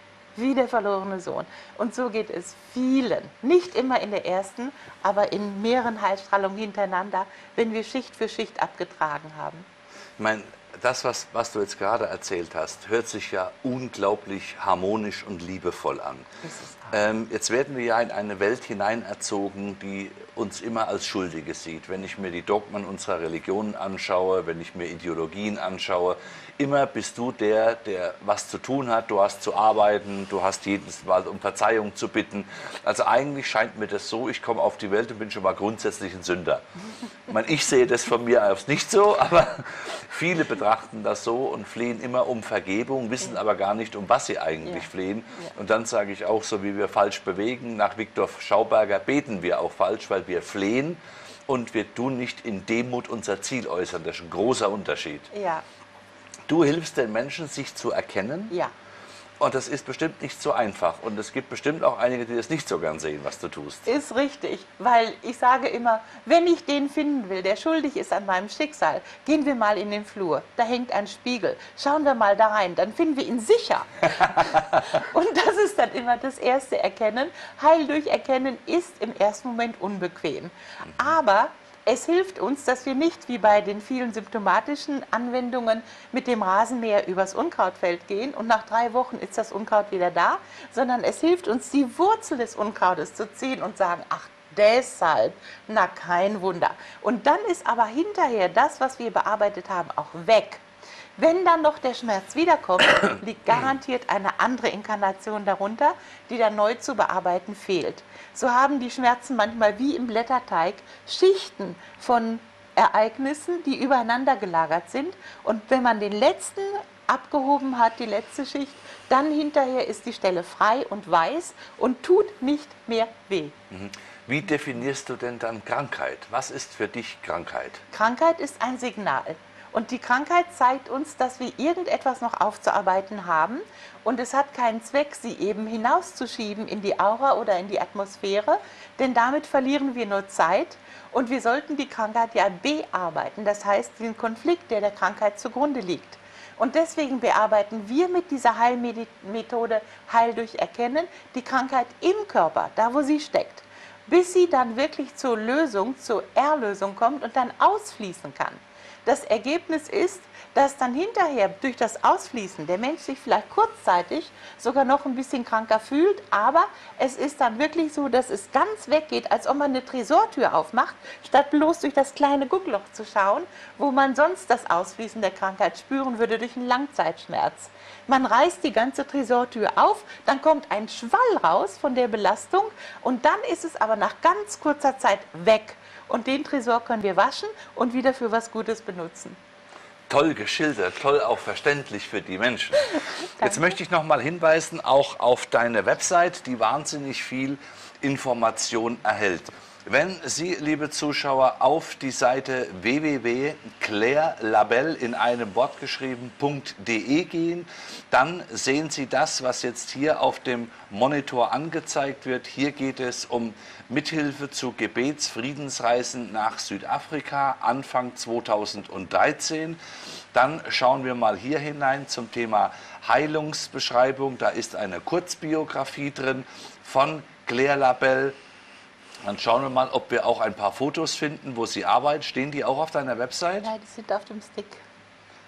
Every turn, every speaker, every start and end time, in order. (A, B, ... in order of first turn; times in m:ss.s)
0:00.4-0:09.7 A
0:10.2-0:16.3 B
0:16.4-0:17.0 A
0:16.9-0:36.7 B
0:37.3-0:55.3 B
0:44.6-0:45.5 A
0:55.3-0:55.6 A
0:56.5-0:58.5 B
0:59.4-1:03.9 B
1:03.8-1:40.6 A
1:41.2-2:03.5 A
2:03.7-2:07.8 B
2:07.9-3:09.4 A
3:10.1-3:39.8 B
3:13.4-3:13.8 A
3:40.3-3:48.4 B
3:49.2-3:53.7 B
3:53.6-3:54.8 A